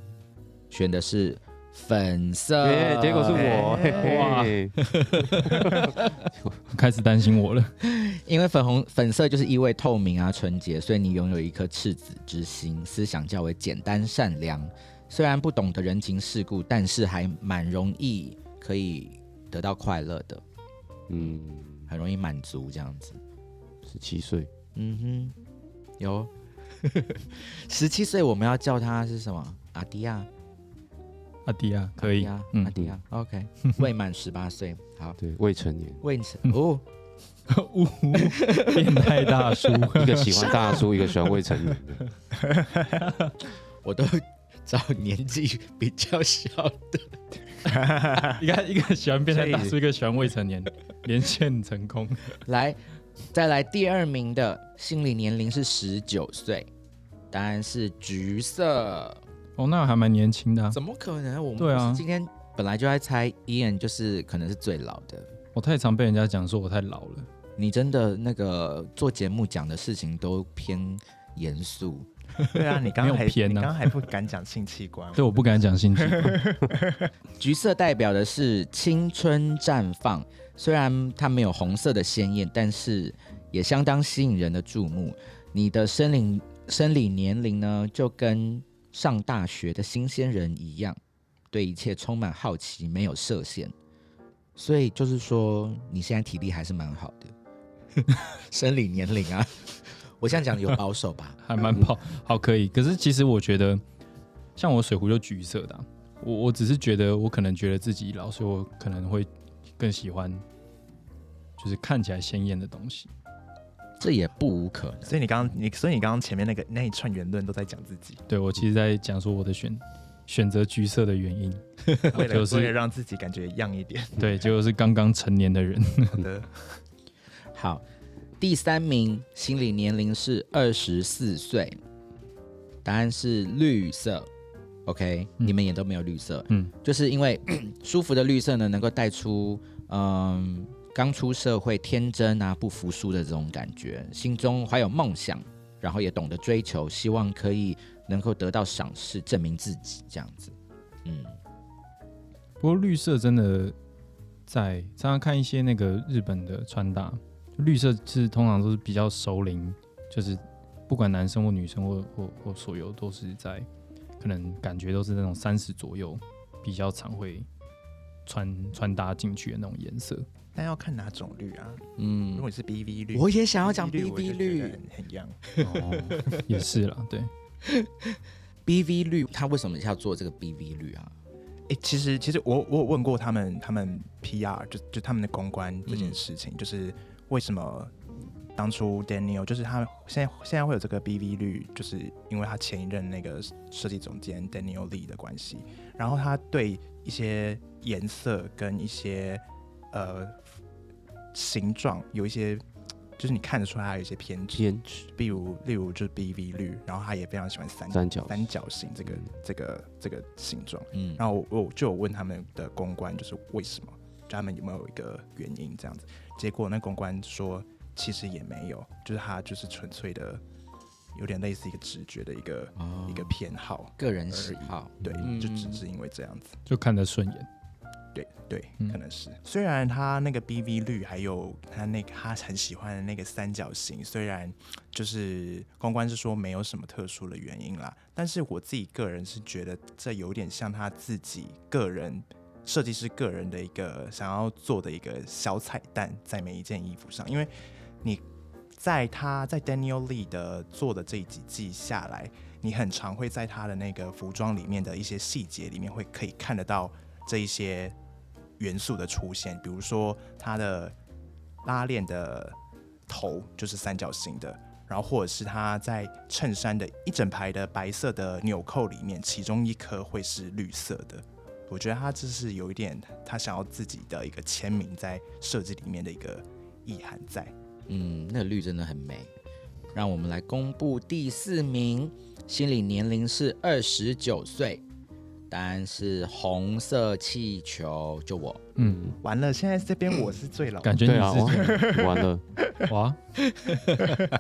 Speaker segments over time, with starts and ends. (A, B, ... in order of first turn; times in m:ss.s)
0:00.7-0:04.0 A
0:02.6-0:04.8 B
0:03.3-0:04.3 C
0:03.8-0:04.7 D
0:05.0-0:06.1 A
0:05.4-0:06.5 B
0:06.7-0:07.7 D
0:07.8-0:20.4 A
0:21.1-0:21.9 B
0:21.9-0:23.2 A
0:23.8-0:24.5 B
0:24.8-0:25.4 A
0:26.0-0:30.3 A
0:31.5-0:32.8 D
0:32.0-0:35.2 A
0:35.2-0:36.0 B
0:36.0-0:36.8 A
0:37.5-0:40.6 D
0:38.4-0:38.8 A
0:39.9-0:42.0 B
0:42.6-0:43.0 C
0:43.8-0:47.1 A
0:47.7-0:48.4 C
0:48.3-0:52.4 D
0:49.3-0:49.8 C
0:52.5-0:52.8 A
0:53.3-0:56.7 A
0:57.3-0:59.2 A
0:59.6-1:00.8 D
1:00.7-1:05.3 A
1:01.6-1:02.0 D
1:05.6-1:07.3 D
1:07.6-1:12.1 A
1:12.4-1:15.3 C
1:12.9-1:13.9 D
1:15.2-1:16.6 D
1:16.0-1:17.1 C
1:17.4-1:31.0 A
1:31.5-1:33.7 A
1:34.6-1:37.3 A
1:38.0-1:41.4 A
1:41.4-1:43.8 D
1:44.6-1:49.3 D
1:49.8-1:50.4 D
1:51.6-1:53.1 D
1:54.0-1:55.2 A
1:55.1-1:58.2 C
1:58.3-2:02.7 D
2:02.1-2:04.5 C
2:04.2-2:06.3 D
2:06.1-2:06.8 C
2:07.5-2:07.8 A
2:08.4-2:11.8 A
2:12.8-2:14.3 A
2:14.9-2:31.4 A
2:32.6-2:33.8 D
2:34.5-2:43.7 D
2:44.2-2:47.5 D
2:48.3-2:50.3 D
2:50.6-2:55.4 C
2:52.0-2:52.5 A
2:53.1-2:54.8 A
2:55.5-2:56.4 A
2:55.6-2:57.3 D
2:57.7-3:01.1 A
3:01.7-3:07.9 C
3:05.9-3:06.2 A
3:08.6-3:20.5 C
3:21.3-3:22.6 C
3:23.2-3:40.4 C
3:24.5-3:25.1 B
3:27.9-3:28.5 B
3:30.9-3:31.2 A
3:41.2-3:46.6 C
3:42.8-3:43.4 A
3:44.0-3:45.8 A
3:46.7-3:47.5 D
3:48.2-4:18.0 C
4:18.6-4:21.0 C
4:21.6-4:22.6 C
4:23.1-4:37.5 C
4:37.9-4:39.3 A
4:39.9-4:44.8 A
4:45.5-4:48.7 A
4:48.8-4:49.2 D
4:48.8-4:49.1 B
4:49.2-4:52.2 C
4:50.8-4:52.0 D
4:51.0-4:52.4 B
4:52.9-4:53.2 D
4:53.5-4:54.2 A